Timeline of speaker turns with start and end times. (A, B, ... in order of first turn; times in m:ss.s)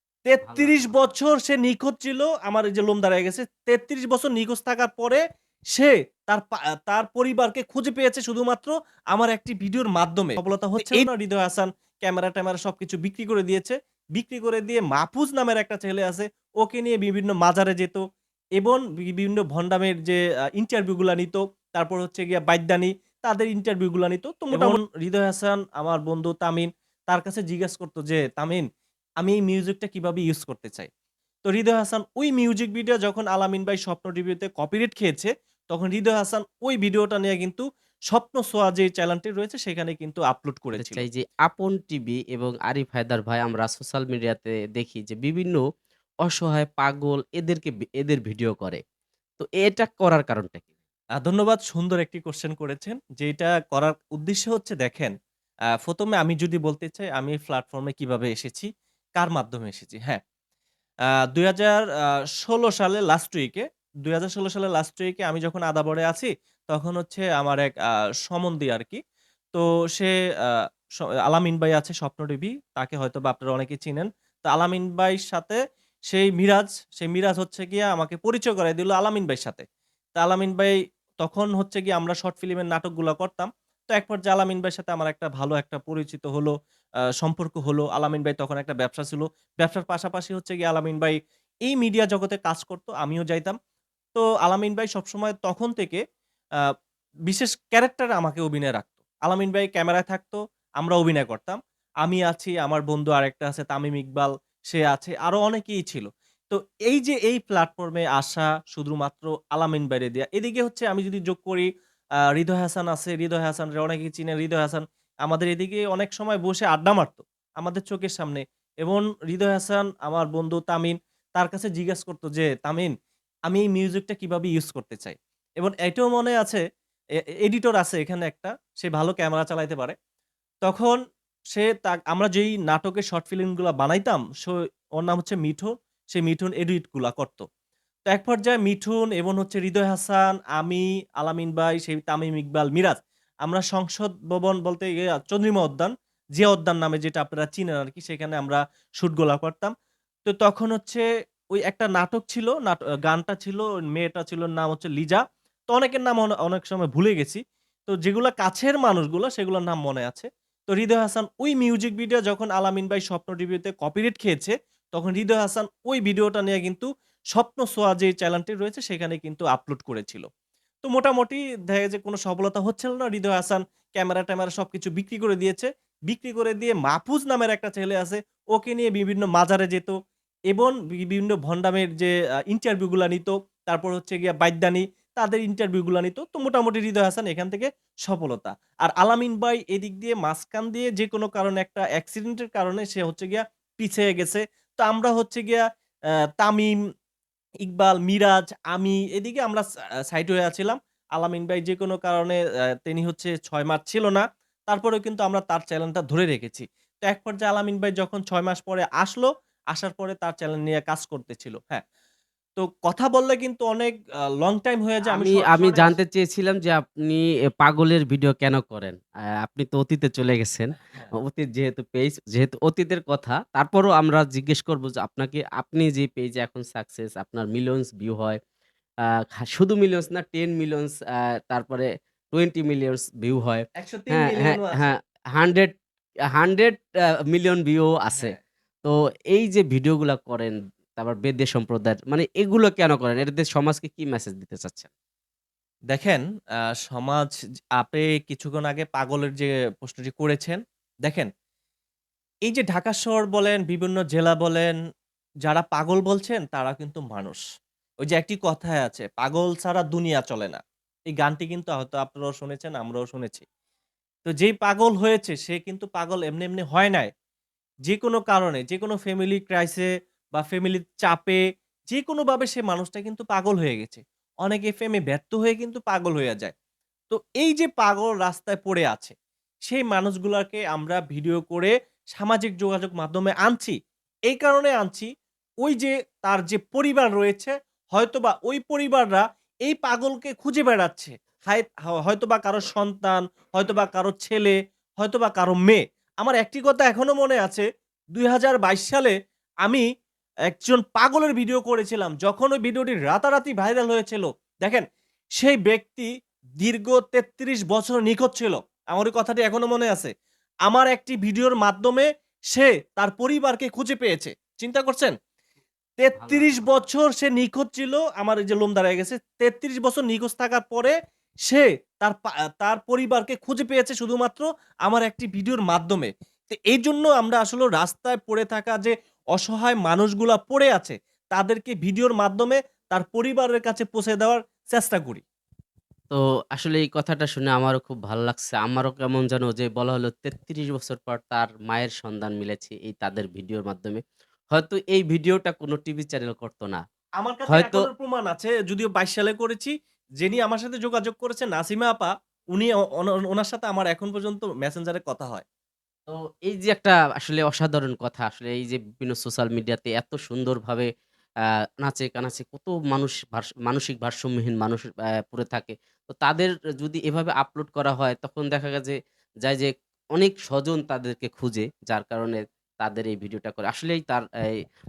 0:00.3-0:05.2 A
0:00.4-0:01.1 B
0:05.8-0:18.0 A
0:10.8-0:11.1 B
0:18.6-0:28.6 A
0:24.5-0:24.8 B
0:29.2-0:30.9 A
0:31.4-0:41.0 A
0:40.8-0:45.6 B
0:46.2-0:48.8 B
0:49.4-0:50.6 B
0:51.2-0:55.1 A
0:55.8-1:00.2 A
1:01.4-1:01.9 A
1:02.4-1:09.0 A
1:09.5-1:10.6 A
1:11.3-1:15.6 A
1:16.1-1:19.6 A
1:20.2-1:26.6 A
1:27.2-1:31.2 A
1:31.7-1:33.6 A
1:34.2-1:36.0 A
1:37.3-1:51.7 A
1:52.4-2:02.9 A
2:03.5-2:06.6 A
2:07.4-2:10.0 A
2:10.6-2:11.0 A
2:11.6-2:17.5 A
2:18.1-2:29.7 A
2:30.3-2:31.0 A
2:31.6-2:50.3 A
2:50.8-2:59.9 A
3:00.5-3:15.6 A
3:16.4-3:16.7 A
3:17.6-3:31.8 A
3:32.6-3:36.0 A
3:35.1-3:48.4 B
3:49.1-3:51.0 B
3:51.5-3:55.7 B
3:53.8-3:54.8 A
3:56.4-3:56.8 B
3:57.3-4:04.9 B
4:05.9-4:06.2 A
4:06.8-4:11.3 A
4:12.5-4:14.8 A
4:15.5-4:17.4 A
4:18.0-4:20.6 A
4:21.1-4:23.4 A
4:24.2-4:27.1 A
4:27.9-4:31.4 A
4:31.9-4:36.5 A
4:37.1-4:39.1 A
4:39.7-4:43.8 A
4:44.3-4:45.1 A
4:45.6-4:59.1 A
5:00.5-5:04.8 A
5:05.4-5:06.1 A
5:06.6-5:10.1 A
5:10.7-5:15.1 A
5:16.0-5:21.0 A
5:16.1-5:16.9 B
5:21.5-5:35.2 A
5:36.1-5:46.8 B
5:47.2-5:55.4 A
5:47.5-5:47.9 B
5:56.1-6:00.9 B
6:01.8-6:14.3 B